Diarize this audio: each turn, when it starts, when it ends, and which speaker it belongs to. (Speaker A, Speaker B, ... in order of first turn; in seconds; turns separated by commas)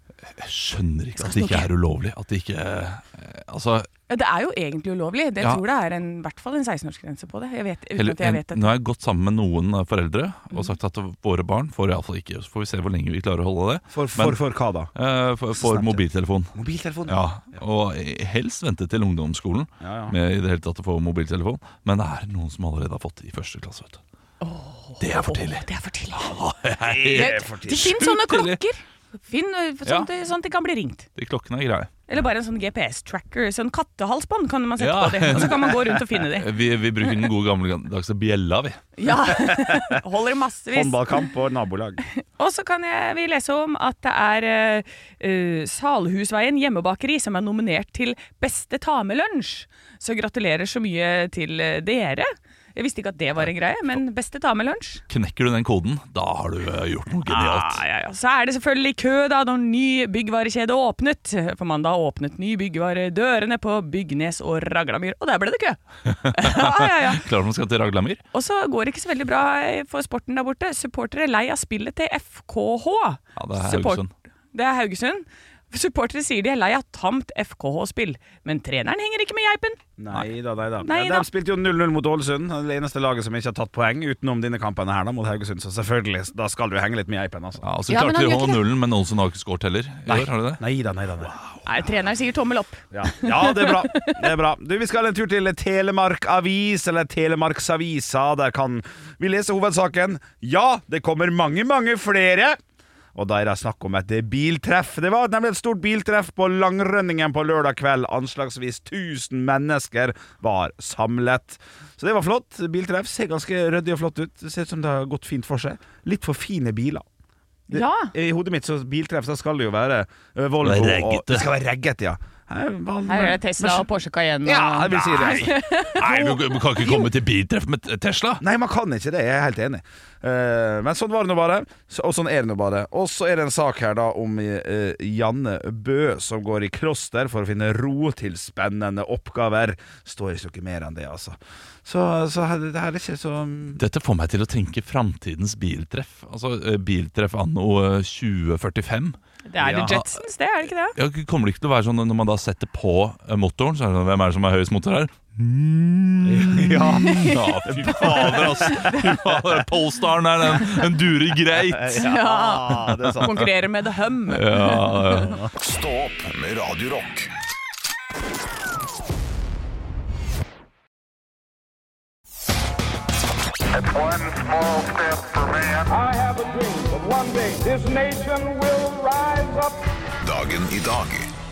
Speaker A: 0.3-3.9, Speaker B: 1.2-1.7, Speaker B: 4.1-8.7, Speaker A: 8.0-14.4, Speaker C: 13.9-14.9, Speaker A: 14.9-16.5, Speaker C: 15.5-16.0, Speaker C: 16.5-17.2, Speaker A: 17.1-24.0, Speaker C: 19.8-20.1, Speaker B: 24.4-26.4, Speaker A: 25.0-28.6, Speaker C: 26.8-27.9, Speaker B: 27.1-31.1, Speaker A: 31.1-32.0, Speaker B: 32.1-36.5, Speaker A: 34.8-38.9, Speaker B: 39.0-41.2, Speaker C: 39.5-40.0, Speaker C: 40.7-42.0, Speaker B: 42.1-55.0, Speaker A: 55.1-57.8, Speaker B: 57.2-67.2, Speaker A: 66.2-68.2, Speaker B: 68.3-79.8, Speaker A: 73.3-74.1, Speaker C: 80.0-87.6, Speaker B: 80.8-81.2, Speaker A: 87.6-90.6, Speaker B: 87.9-88.6, Speaker C: 90.1-91.4, Speaker B: 91.6-94.2, Speaker C: 92.9-102.6, Speaker C: 103.1-117.0, Speaker B: 117.7-118.1, Speaker C: 117.7-123.9, Speaker A: 120.6-121.5, Speaker B: 123.1-127.1, Speaker C: 124.4-125.6, Speaker A: 125.9-128.4, Speaker C: 128.4-143.8, Speaker A: 143.8-149.2, Speaker B: 149.5-150.9, Speaker C: 149.6-149.9, Speaker A: 149.7-150.1, Speaker A: 150.9-162.0, Speaker C: 156.2-159.6, Speaker B: 157.0-159.0, Speaker C: 161.5-163.5, Speaker B: 161.9-165.4, Speaker A: 164.3-165.4, Speaker D: 165.6-167.3, Speaker E: 173.8-179.8, Speaker D: 180.2-181.3